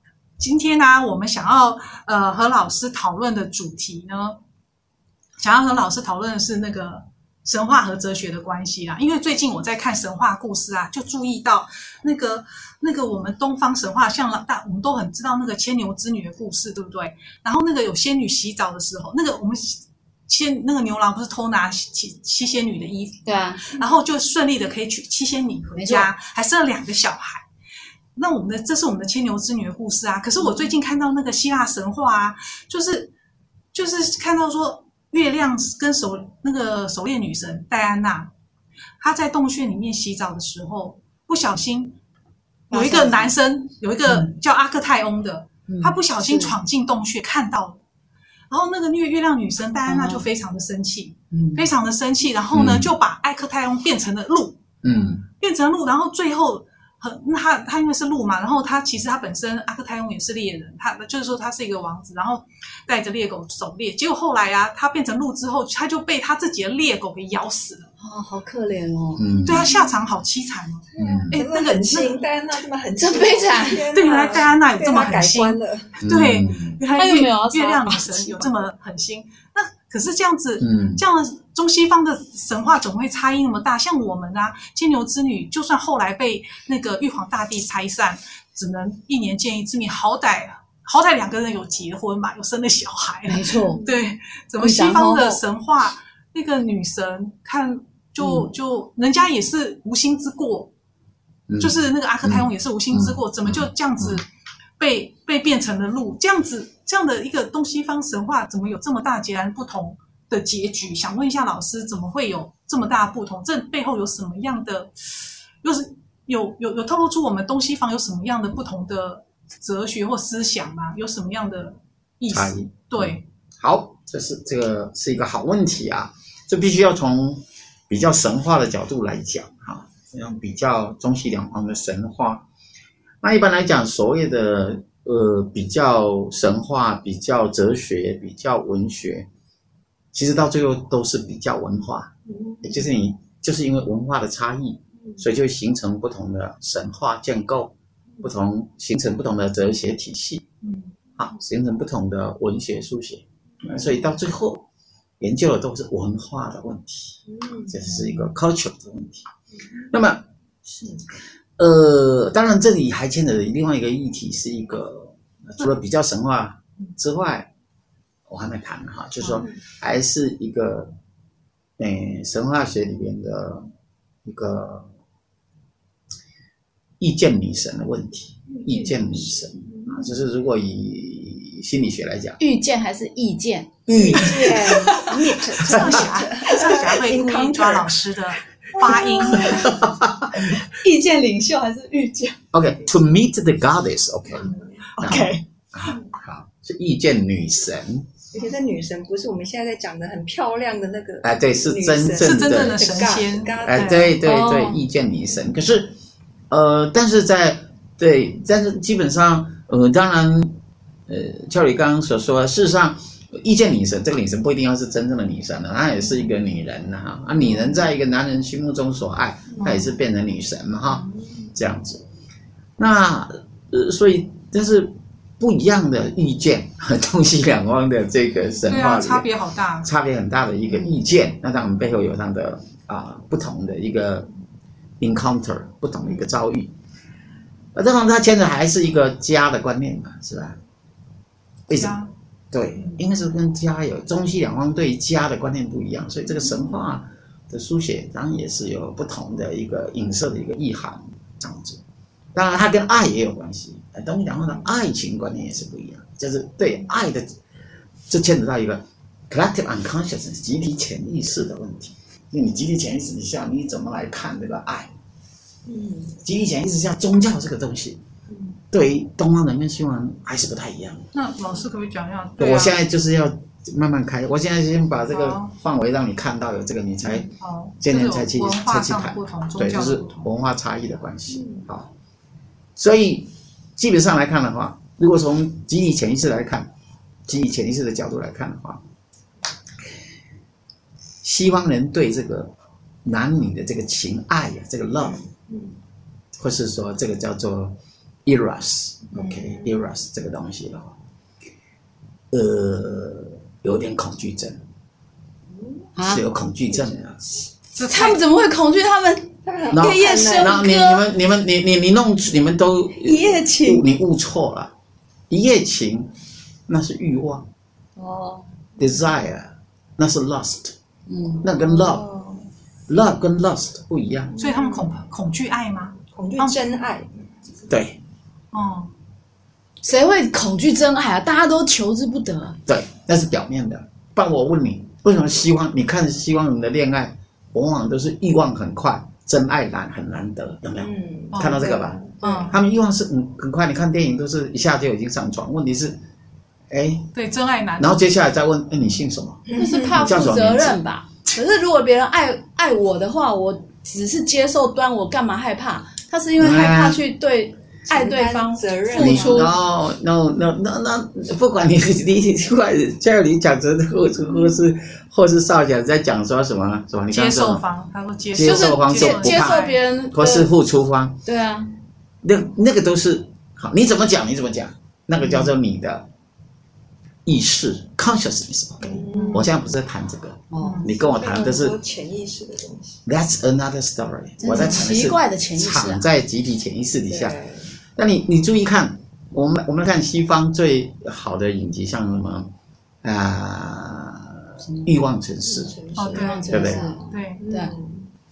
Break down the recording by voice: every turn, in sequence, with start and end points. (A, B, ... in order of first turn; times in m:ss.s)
0:00.4-0:04.4 A
0:05.4-0:27.4 A
0:23.2-0:23.7 B
0:25.8-0:26.1 B
0:28.2-0:33.1 A
0:33.7-0:38.3 A
0:39.0-0:41.9 A
0:42.7-0:43.3 B
0:42.7-0:47.8 A
0:45.7-0:46.5 B
0:48.5-0:54.6 A
0:49.9-0:50.3 B
0:51.3-0:51.7 B
0:52.5-0:52.9 C
0:54.8-0:55.2 C
0:55.4-1:07.9 A
1:08.0-1:09.3 B
1:09.2-1:09.8 C
1:09.4-1:12.2 A
1:11.0-1:15.9 D
1:11.0-1:11.4 C
1:13.0-1:13.9 B
1:13.9-1:40.7 A
1:16.0-1:16.8 C
1:16.9-1:18.6 B
1:20.6-1:21.0 C
1:33.3-1:33.8 B
1:34.6-1:35.4 B
1:38.2-1:38.5 B
1:41.5-1:44.2 C
1:41.6-1:44.3 A
1:44.8-1:54.9 A
1:55.6-2:03.2 A
2:02.3-2:12.4 C
2:13.2-2:19.3 C
2:20.1-2:22.1 C
2:22.3-2:22.8 D
2:22.6-2:30.4 C
2:30.6-2:30.9 A
2:31.2-2:34.6 C
2:35.2-2:39.3 C
2:37.3-2:37.8 D
2:39.9-2:40.2 C
2:41.6-2:47.5 C
2:48.3-2:50.9 C
2:51.8-2:53.7 C
2:54.3-2:54.9 C
2:57.0-3:02.4 C
2:58.5-3:00.1 D
3:02.4-3:05.1 B
3:03.9-3:04.8 C
3:03.9-3:08.0 D
3:05.6-3:09.7 A
3:08.8-3:09.4 D
3:09.3-3:10.3 C
3:09.4-3:09.7 B
3:10.4-3:12.4 B
3:12.5-3:18.1 C
3:14.4-3:15.3 D
3:15.0-3:15.4 B
3:18.3-3:24.1 D
3:21.2-3:22.8 C
3:22.2-3:24.2 A
3:23.7-3:25.9 C
3:24.2-3:24.8 B
3:26.5-3:30.6 C
3:31.1-3:42.0 C
3:42.8-3:49.3 C
3:48.7-3:49.9 A
3:49.8-3:54.3 C
3:55.0-3:56.7 C
3:57.8-4:00.6 C
4:01.7-4:02.0 C
4:01.7-4:02.1 A
4:02.5-4:11.8 C
4:12.4-4:17.3 C
4:18.1-4:24.9 C
4:25.7-4:26.2 D
4:26.2-4:28.0 C
4:28.3-4:28.6 D
4:28.7-4:31.1 C
4:31.1-4:32.8 A
4:32.4-4:41.9 C
4:35.1-4:35.5 A
4:37.3-4:40.3 A
4:41.3-4:41.7 D
4:42.8-4:46.7 C
4:47.3-4:48.8 C
4:51.2-4:52.5 C
4:53.0-4:55.2 C
4:55.0-4:55.7 D
4:56.4-5:01.0 C
4:59.1-4:59.7 D
5:02.3-5:04.6 C
5:06.0-5:06.2 B
5:06.0-5:07.3 C
5:07.8-5:08.2 A
5:07.8-5:11.1 B
5:09.4-5:10.6 D
5:09.7-5:14.7 C
5:13.0-5:13.9 B
5:15.3-5:16.1 C
5:16.7-5:17.5 C
5:18.0-5:18.5 B
5:18.8-5:20.7 C
5:21.1-5:21.5 B
5:21.4-5:22.1 C
5:21.7-5:22.4 D
5:22.9-5:24.3 C
5:24.4-5:24.9 D
5:24.4-5:26.6 A
5:26.1-5:27.1 D
5:27.7-5:28.0 C
5:28.5-5:28.9 A
5:29.8-5:32.6 B
5:32.7-5:46.0 C
5:40.8-5:42.5 D
5:41.3-5:41.6 A
5:42.2-5:42.6 A
5:42.2-5:42.5 B
5:46.7-5:47.1 C
5:47.1-5:48.1 A
5:47.8-5:50.8 C
5:49.5-5:50.1 D
5:49.5-5:59.5 B
5:56.4-5:57.0 C
5:57.9-5:59.5 D
5:58.9-6:07.6 C
6:07.1-6:09.8 A
6:08.3-6:11.2 C
6:08.4-6:10.5 B
6:11.2-6:11.7 B
6:12.2-6:16.1 C
6:17.3-6:21.8 C
6:18.8-6:19.5 D
6:19.1-6:19.5 A
6:20.5-6:20.9 B
6:20.6-6:20.9 A
6:21.0-6:23.0 D
6:23.1-6:27.4 C
6:24.4-6:26.1 B
6:27.1-6:27.7 D
6:28.0-6:32.5 C
6:33.0-6:35.8 C
6:34.6-6:34.9 B
6:35.4-6:38.1 D
6:36.0-6:36.5 A
6:36.0-6:37.7 B
6:36.5-6:36.9 C
6:37.0-6:37.4 A